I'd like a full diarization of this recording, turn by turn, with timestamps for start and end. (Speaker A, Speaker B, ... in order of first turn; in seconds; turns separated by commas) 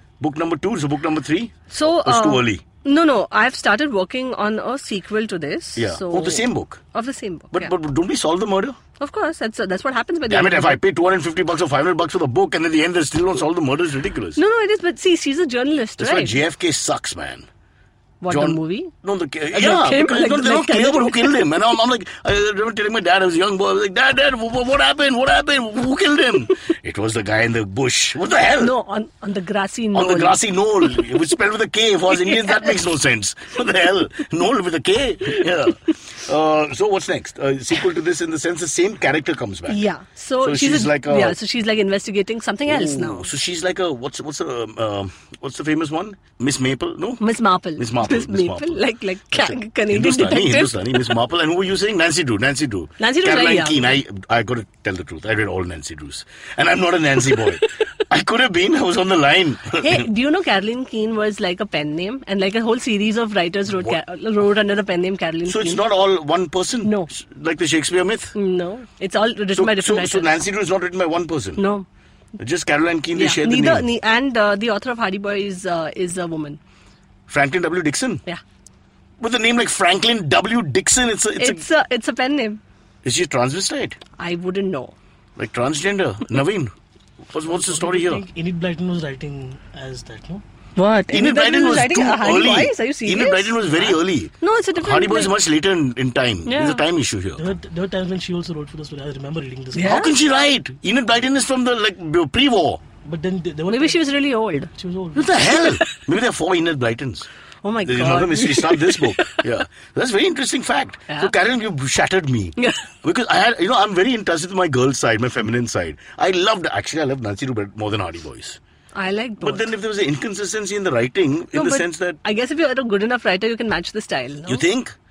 Speaker A: 0.2-2.6, Speaker B: 1.7-7.7, Speaker A: 5.8-6.8, Speaker A: 7.5-8.8, Speaker B: 9.0-10.8, Speaker A: 10.3-14.4, Speaker B: 14.3-16.4, Speaker A: 16.0-17.4, Speaker B: 18.2-18.9, Speaker A: 18.3-28.7, Speaker B: 19.5-21.4, Speaker B: 28.6-30.4, Speaker A: 29.9-39.8, Speaker B: 32.1-32.8, Speaker B: 39.7-43.3, Speaker A: 40.4-41.4, Speaker A: 42.7-47.2, Speaker B: 47.2-51.2, Speaker A: 47.8-60.1, Speaker B: 53.0-53.9, Speaker B: 59.8-65.8, Speaker A: 65.4-68.3, Speaker B: 66.8-67.1, Speaker B: 68.3-70.4, Speaker A: 69.5-71.6, Speaker B: 71.6-71.8, Speaker A: 72.4-73.8, Speaker B: 73.1-76.6, Speaker A: 77.3-78.2, Speaker A: 79.2-81.6, Speaker B: 81.4-82.6, Speaker A: 83.0-84.0, Speaker B: 84.2-84.9, Speaker A: 85.4-86.7, Speaker A: 87.3-88.2, Speaker C: 87.5-90.4, Speaker B: 90.8-95.3, Speaker A: 91.1-97.5, Speaker B: 96.4-96.8, Speaker C: 97.4-99.9, Speaker B: 99.7-100.2, Speaker A: 99.8-102.8, Speaker C: 103.0-104.0, Speaker B: 103.7-104.7, Speaker C: 104.7-105.6, Speaker A: 105.1-107.3, Speaker B: 107.6-109.4, Speaker A: 107.8-118.6, Speaker B: 112.6-112.9, Speaker B: 118.9-119.7, Speaker A: 119.4-122.2, Speaker B: 121.5-124.6, Speaker A: 124.5-125.0